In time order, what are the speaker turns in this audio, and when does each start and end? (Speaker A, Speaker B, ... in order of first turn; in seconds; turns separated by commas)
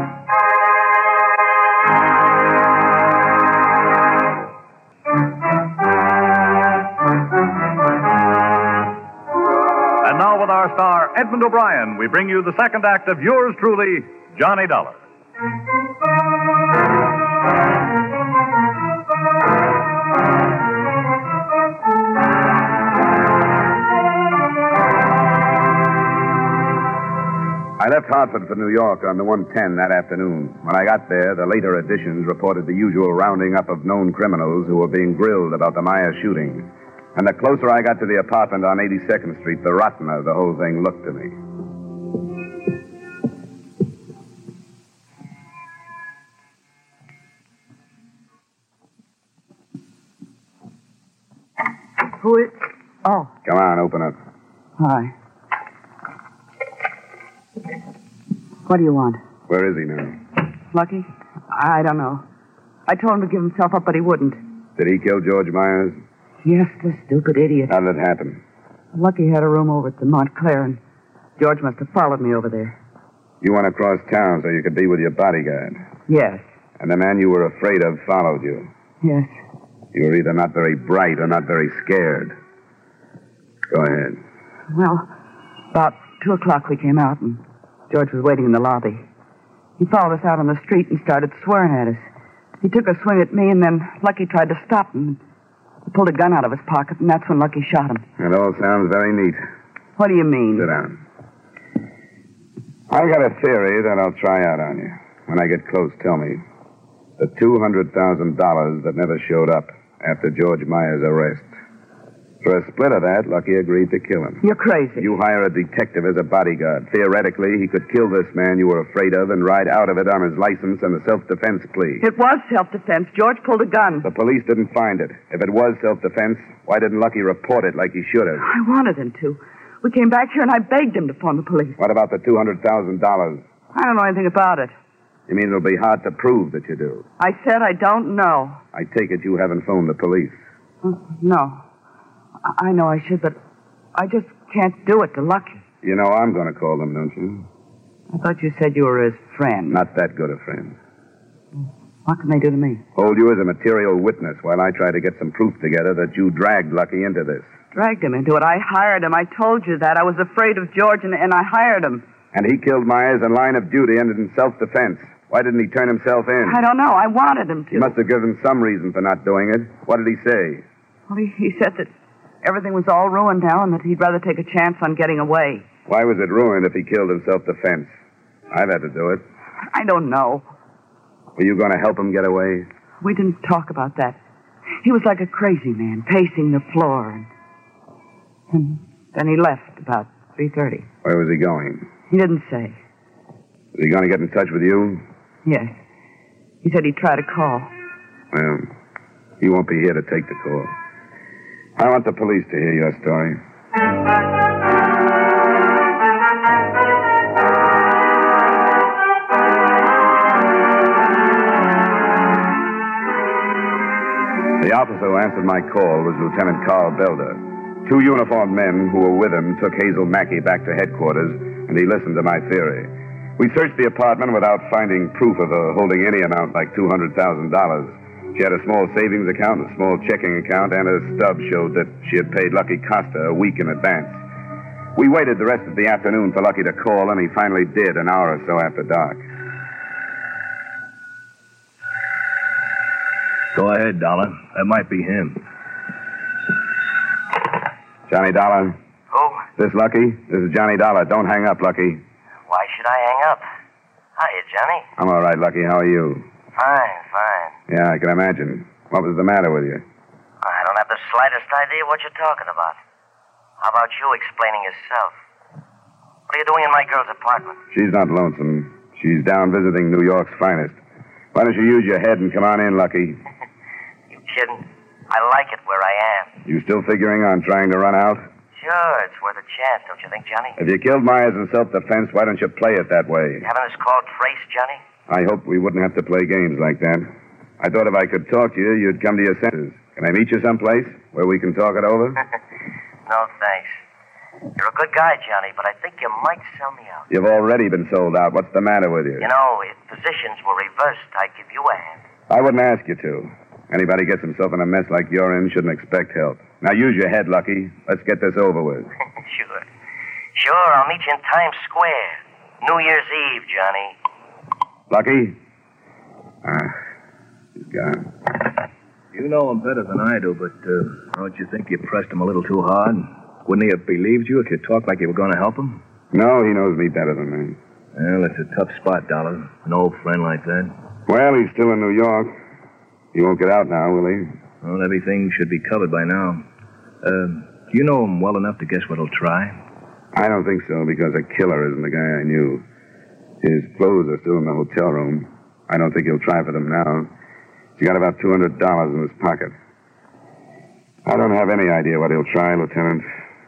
Speaker A: 10.0-15.0, Speaker B: 27.8-41.4, Speaker C: 52.2-53.3, Speaker B: 53.5-54.2, Speaker C: 54.8-55.1, Speaker C: 58.7-59.2, Speaker B: 59.5-60.2, Speaker C: 60.7-62.2, Speaker C: 62.9-64.4, Speaker B: 64.8-66.0, Speaker C: 66.4-67.7, Speaker B: 67.7-68.4, Speaker C: 68.9-70.8, Speaker C: 71.4-72.8, Speaker B: 73.4-75.8, Speaker C: 76.1-76.4, Speaker B: 76.8-78.7, Speaker C: 79.0-79.3, Speaker B: 79.9-82.4, Speaker B: 83.7-84.2, Speaker C: 84.7-85.1, Speaker C: 85.7-89.0, Speaker C: 89.8-92.1, Speaker C: 92.6-95.2, Speaker C: 95.9-98.0, Speaker B: 98.2-99.4, Speaker C: 100.0-100.7, Speaker B: 100.5-101.0, Speaker B: 102.9-106.4, Speaker B: 107.2-111.5, Speaker B: 112.4-122.0, Speaker C: 114.4-115.1, Speaker C: 122.0-124.1, Speaker B: 124.0-128.5, Speaker C: 128.4-131.8, Speaker B: 131.8-133.4, Speaker C: 133.7-134.7, Speaker B: 135.3-137.1, Speaker C: 137.2-138.6, Speaker B: 138.7-140.4, Speaker C: 140.8-141.6, Speaker C: 142.4-143.4, Speaker C: 143.9-145.6, Speaker B: 145.8-147.5, Speaker C: 148.1-149.8, Speaker B: 149.7-150.8, Speaker C: 152.1-152.8, Speaker B: 152.9-157.5, Speaker C: 157.7-162.1, Speaker B: 162.3-166.6, Speaker C: 166.4-167.9, Speaker B: 167.7-170.6, Speaker C: 171.1-171.9, Speaker C: 172.4-175.7, Speaker B: 175.9-177.9, Speaker B: 178.5-179.2, Speaker C: 179.7-180.5, Speaker B: 181.4-182.7, Speaker C: 183.0-184.2, Speaker C: 184.8-187.3, Speaker C: 188.5-190.9, Speaker B: 191.0-191.9, Speaker C: 192.1-192.8, Speaker B: 193.8-195.0, Speaker C: 195.4-195.7, Speaker C: 196.6-197.7, Speaker B: 198.3-198.7, Speaker B: 199.4-200.7, Speaker B: 201.8-203.4, Speaker B: 214.6-234.2, Speaker B: 235.0-239.2, Speaker D: 243.5-245.4, Speaker B: 248.1-248.8, Speaker E: 249.1-249.5, Speaker B: 249.6-252.0, Speaker E: 252.5-253.4, Speaker E: 254.2-254.9, Speaker B: 255.0-256.3, Speaker E: 256.6-257.6, Speaker B: 257.7-259.8, Speaker E: 260.4-262.8, Speaker E: 263.6-265.2, Speaker E: 266.3-267.6, Speaker B: 267.7-270.8, Speaker B: 271.3-273.2, Speaker E: 274.1-276.4, Speaker B: 276.4-278.3, Speaker E: 278.6-280.6, Speaker B: 280.6-283.5, Speaker E: 283.4-284.8, Speaker B: 285.1-292.2, Speaker E: 293.1-293.8, Speaker E: 294.6-297.1, Speaker B: 297.1-299.3, Speaker E: 299.2-302.0, Speaker B: 302.3-308.9, Speaker E: 309.2-309.6, Speaker E: 310.4-313.9, Speaker B: 314.9-315.4, Speaker B: 316.4-316.8, Speaker B: 317.6-318.1, Speaker D: 319.1-325.8, Speaker B: 326.1-327.6, Speaker D: 327.9-330.8, Speaker B: 331.1-332.4, Speaker B: 333.1-334.3, Speaker D: 334.6-336.5, Speaker D: 337.0-339.6, Speaker B: 340.1-342.6, Speaker B: 343.4-347.1, Speaker B: 347.8-349.6, Speaker B: 351.1-353.1